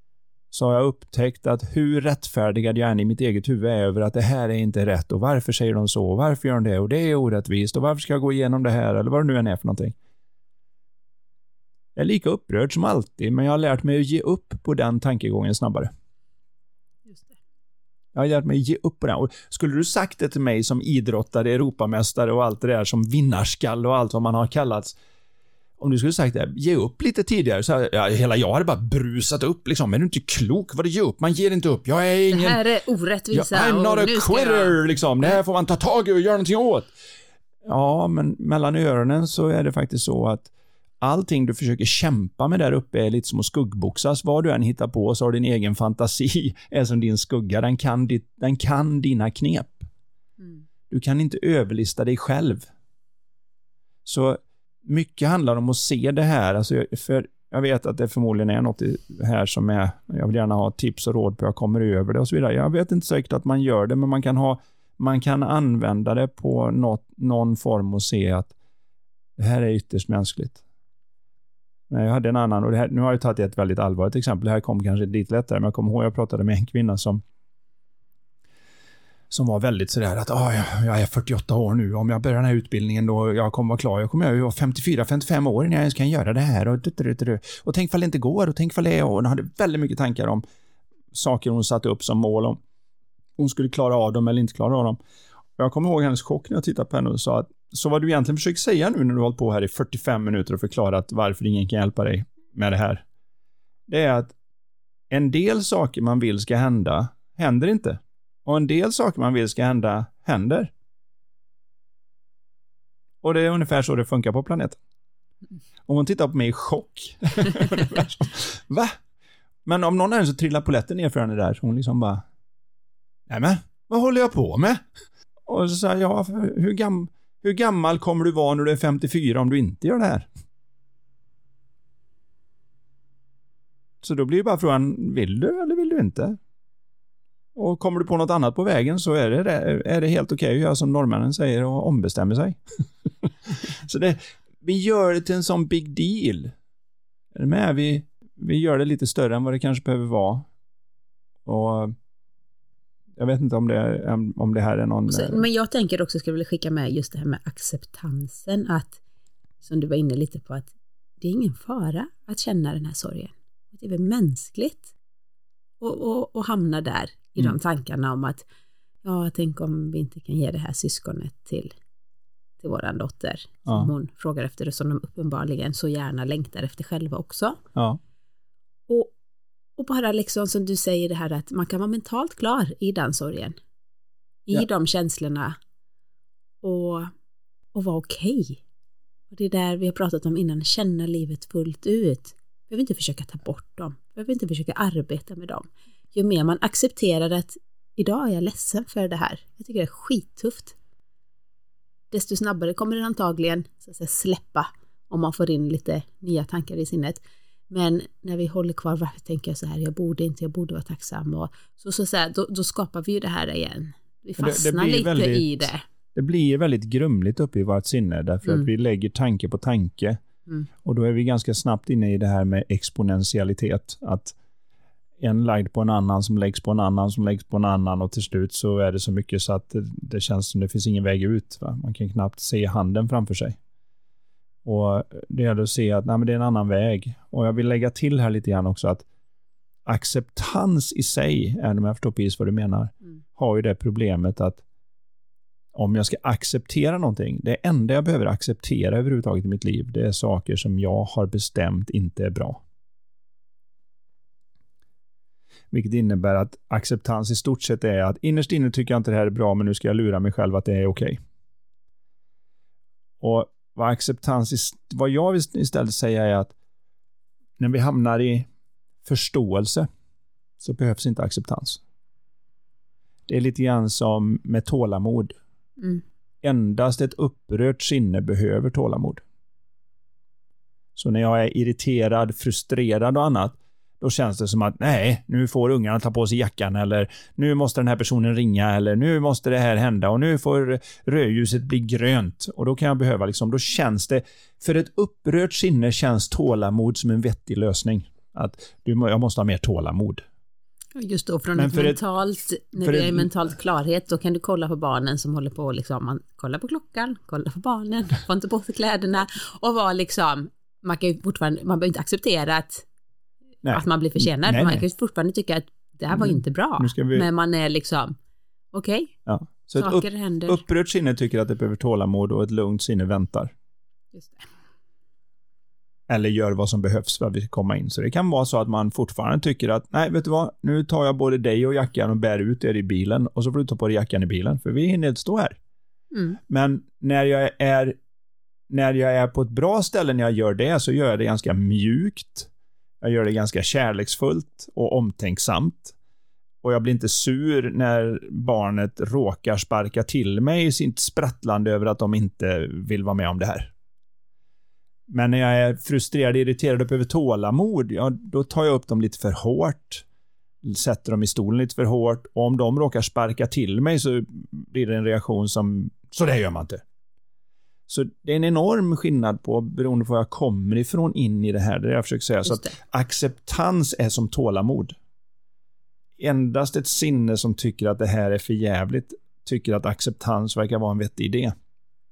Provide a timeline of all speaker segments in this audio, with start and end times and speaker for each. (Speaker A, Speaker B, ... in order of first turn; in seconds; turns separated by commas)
Speaker A: 0.5-9.9, Speaker A: 12.0-15.9, Speaker B: 17.1-17.3, Speaker A: 18.1-25.0, Speaker A: 25.8-32.6, Speaker B: 32.3-34.8, Speaker A: 33.3-36.9, Speaker A: 37.6-49.9, Speaker A: 50.9-52.7, Speaker A: 54.0-68.5, Speaker A: 69.4-70.6, Speaker A: 71.9-77.2, Speaker A: 79.3-90.4, Speaker A: 91.1-92.6, Speaker A: 93.4-95.0, Speaker A: 95.6-103.0, Speaker A: 103.9-104.3, Speaker A: 105.1-110.7, Speaker A: 113.2-114.8, Speaker A: 115.9-119.0, Speaker A: 119.7-122.2, Speaker A: 123.3-124.8, Speaker A: 125.5-130.3, Speaker A: 134.0-136.4, Speaker A: 137.6-146.5, Speaker A: 147.3-150.5, Speaker A: 151.5-151.9, Speaker A: 153.2-155.4, Speaker B: 155.1-159.0, Speaker B: 159.6-164.9, Speaker B: 165.8-168.5, Speaker B: 169.0-171.7, Speaker B: 172.6-177.6, Speaker B: 178.9-179.1, Speaker B: 179.8-183.6, Speaker B: 184.5-185.6, Speaker B: 186.6-187.1, Speaker B: 187.7-188.6, Speaker B: 189.3-200.8, Speaker B: 202.1-215.8, Speaker A: 214.4-220.2, Speaker A: 220.8-224.4, Speaker A: 225.2-233.6, Speaker A: 234.7-239.1, Speaker A: 239.9-244.6, Speaker A: 245.7-252.6, Speaker A: 255.7-261.2, Speaker A: 263.2-266.5, Speaker A: 267.6-268.5, Speaker A: 269.1-269.9, Speaker A: 270.6-271.8, Speaker A: 273.3-275.4, Speaker A: 276.4-279.2, Speaker A: 281.0-300.2, Speaker B: 300.9-312.9, Speaker A: 301.6-302.0, Speaker A: 302.8-303.3, Speaker A: 313.6-314.8, Speaker B: 313.7-318.2, Speaker A: 316.1-317.3, Speaker B: 318.7-319.1, Speaker A: 319.3-323.5, Speaker B: 319.8-320.6, Speaker B: 324.1-324.4, Speaker A: 326.1-335.6, Speaker B: 336.1-336.4, Speaker A: 336.5-338.0, Speaker A: 338.7-342.5, Speaker A: 343.0-345.9, Speaker A: 346.6-353.7, Speaker A: 355.1-360.1, Speaker A: 360.6-366.8, Speaker A: 367.9-375.0, Speaker B: 372.5-372.8, Speaker A: 376.2-381.6